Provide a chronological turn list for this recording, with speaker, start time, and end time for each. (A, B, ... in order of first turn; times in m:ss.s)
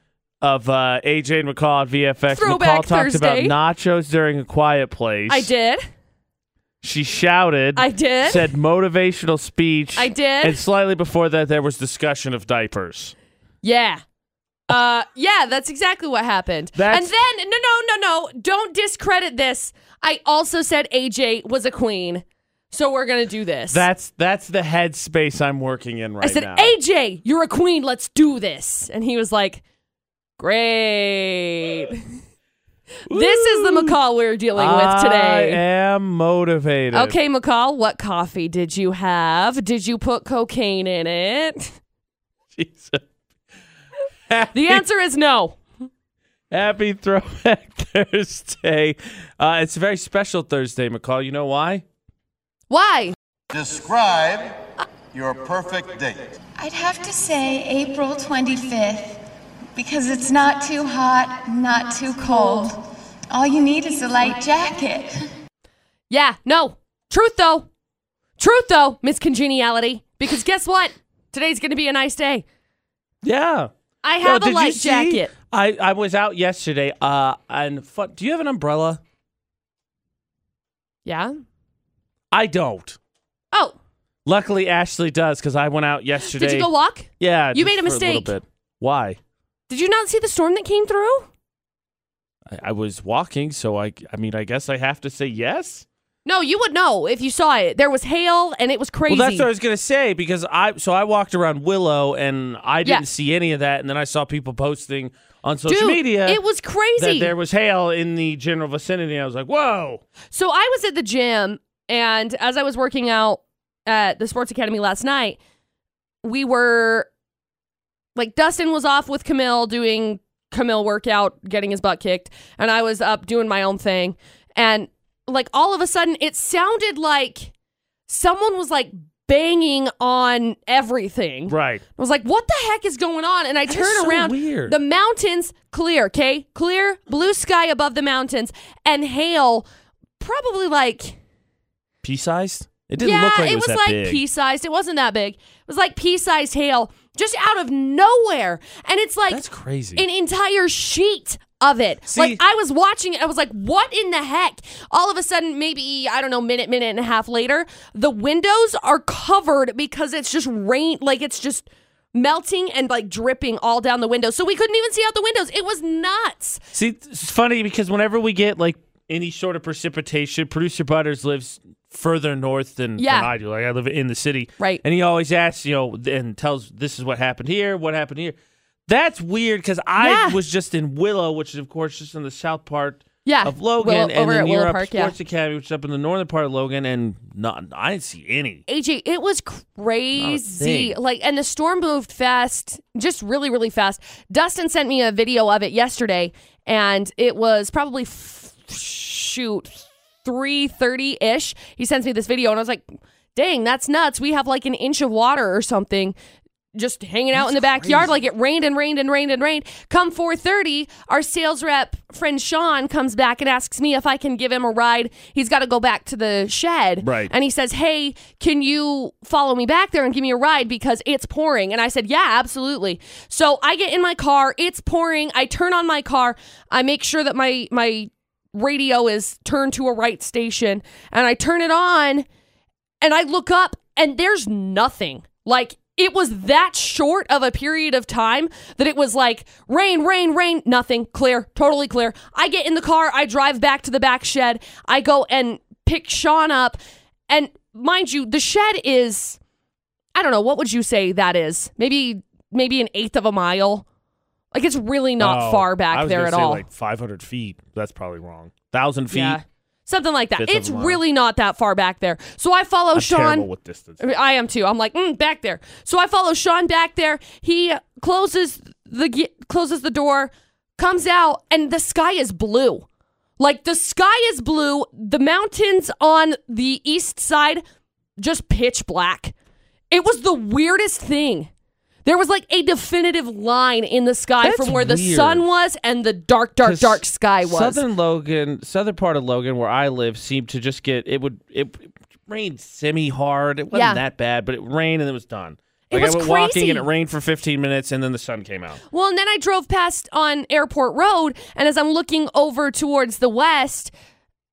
0:00.4-0:05.5 A
0:02.3-0:03.5 B
0:05.3-0:05.9 B
0:06.8-0:13.1 A
0:07.7-0:08.5 B
0:10.0-0:10.6 B
0:13.6-0:14.0 B
0:14.7-0:23.8 B
0:16.7-0:17.2 A
0:23.7-0:26.7 A
0:26.2-0:29.6 B
0:30.4-0:32.2 B
0:33.1-0:34.0 A
0:33.1-0:35.6 B
0:34.6-0:37.2 A
0:36.9-0:41.7 B
0:42.5-0:43.0 A
0:44.3-0:44.8 A
0:44.5-0:45.6 B
0:46.5-0:51.8 A
0:52.7-0:53.2 B
0:53.5-0:54.6 C
0:55.1-0:59.2 C
0:59.7-1:05.2 C
1:06.1-1:07.7 B
1:08.4-1:12.4 B
1:13.2-1:13.7 A
1:14.0-1:15.3 B
1:14.2-1:19.0 A
1:21.0-1:21.4 B
1:22.3-1:23.0 A
1:23.5-1:23.8 B
1:24.2-1:29.2 A
1:26.3-1:28.3 B
1:29.7-1:31.3 B
1:32.5-1:35.8 A
1:36.2-1:39.5 B
1:39.1-1:46.4 A
1:45.7-1:47.3 B
1:47.0-1:50.0 A
1:50.3-1:55.4 B
1:56.2-1:57.1 B
1:58.1-2:07.5 B
2:08.1-2:19.6 B
2:11.5-2:11.8 A
2:13.7-2:14.8 A
2:20.2-2:21.2 B
2:22.0-2:24.2 A
2:23.0-2:29.4 B
2:29.3-2:30.0 A
2:29.9-2:46.6 B
2:32.1-2:32.4 A
2:46.7-2:58.4 A
2:53.0-2:53.3 B
2:58.9-3:08.6 A
3:00.0-3:00.4 B
3:03.2-3:05.1 B
3:08.7-3:26.2 B
3:10.2-3:10.9 A
3:26.7-3:52.3 B
3:27.3-3:28.2 A
3:37.0-3:37.3 A
3:53.0-4:09.4 B
4:10.1-4:13.8 B
4:14.5-4:16.6 B
4:15.2-4:19.4 A
4:19.1-4:23.5 B
4:20.4-4:21.0 A
4:22.9-4:24.0 A
4:24.0-4:32.8 B
4:33.4-4:37.6 B
4:38.2-4:39.3 B
4:39.9-4:41.5 B
4:42.0-4:47.8 B
4:44.4-4:45.4 A
4:46.6-4:58.8 A
4:53.7-4:54.0 B
4:55.9-4:56.9 B
4:58.9-5:03.9 B